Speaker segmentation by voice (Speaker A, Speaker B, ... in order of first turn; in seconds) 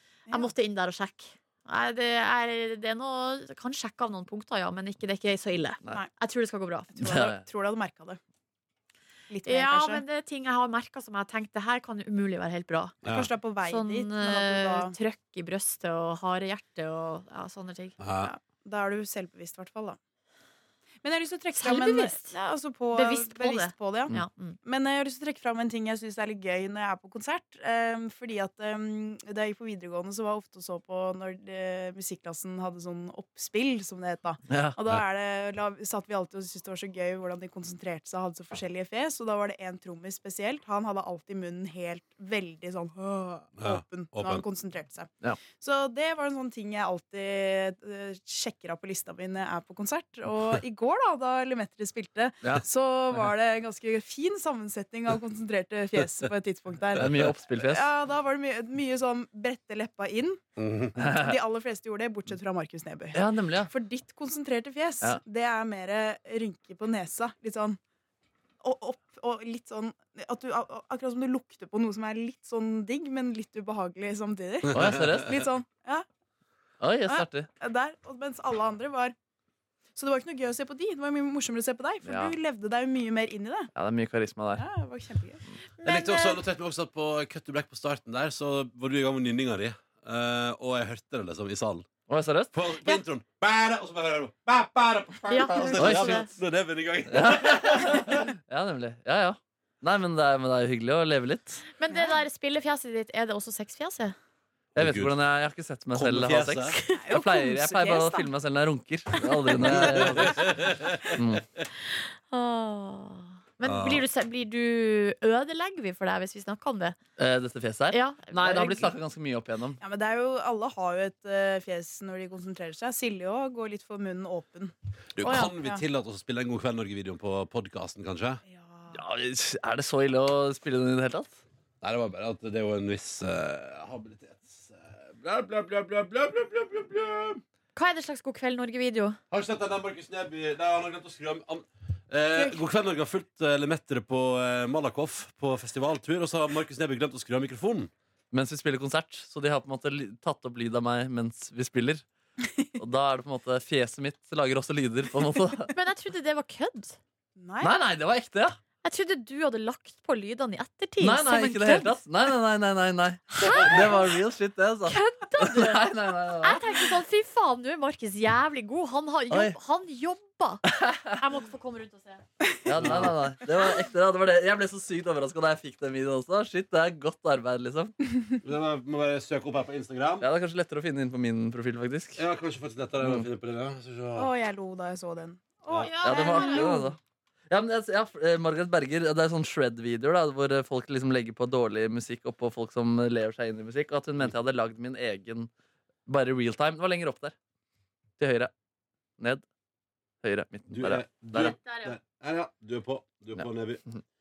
Speaker A: 0.3-0.5, 7.0-8.2, 9.3-10.0, 13.1-14.9, 18.2-20.0, 21.0-24.1, 24.6-60.4, 61.0-67.8, 68.6-76.1, 77.1-79.2, 80.0-83.7, 84.6-85.5, 101.9-102.2, 106.9-108.3, 119.8-124.7, 128.4-129.0, 157.4-157.7, 184.1-187.0
Speaker B: 0.3-6.9, 9.4-13.0, 13.6-17.9, 21.5-22.4, 22.9-24.6, 85.8-86.4, 95.3-96.3, 101.8-104.1, 106.8-107.0, 111.9-117.0, 117.9-118.9, 125.2-125.5, 137.8-139.2, 155.7-157.0, 158.8-161.9, 163.3-164.0, 164.9-165.9, 166.4-172.2, 185.8-186.8, 201.4-201.9
Speaker C: 7.0-7.4, 34.5-34.8, 52.4-53.3, 57.0-57.9, 61.0-61.4, 63.1-63.7, 74.7-75.4, 76.8-77.5, 82.0-82.4, 83.8-84.7, 92.1-92.5, 95.8-96.2, 97.1-101.6, 104.8-110.6, 111.1-111.5, 117.2-119.8, 128.9-131.4, 148.3-152.0, 152.8-155.7, 157.6-158.6, 161.0-166.9, 169.3-169.6, 170.7-171.1, 172.6-177.9, 180.2-182.2, 186.0-187.0, 187.5-195.5, 196.1-197.3, 198.2-198.5, 200.2-201.6
Speaker D: 13.0-13.3, 18.0-18.3, 43.6-44.5, 57.0-57.3, 60.6-61.0, 74.7-75.1, 85.8-91.9, 92.5-98.3, 104.8-105.1, 105.9-106.8, 109.6-111.2, 113.6-114.0, 125.2-128.4, 131.8-137.4, 139.3-147.9, 172.8-173.2, 178.4-180.2, 182.2-184.3, 200.7-203.8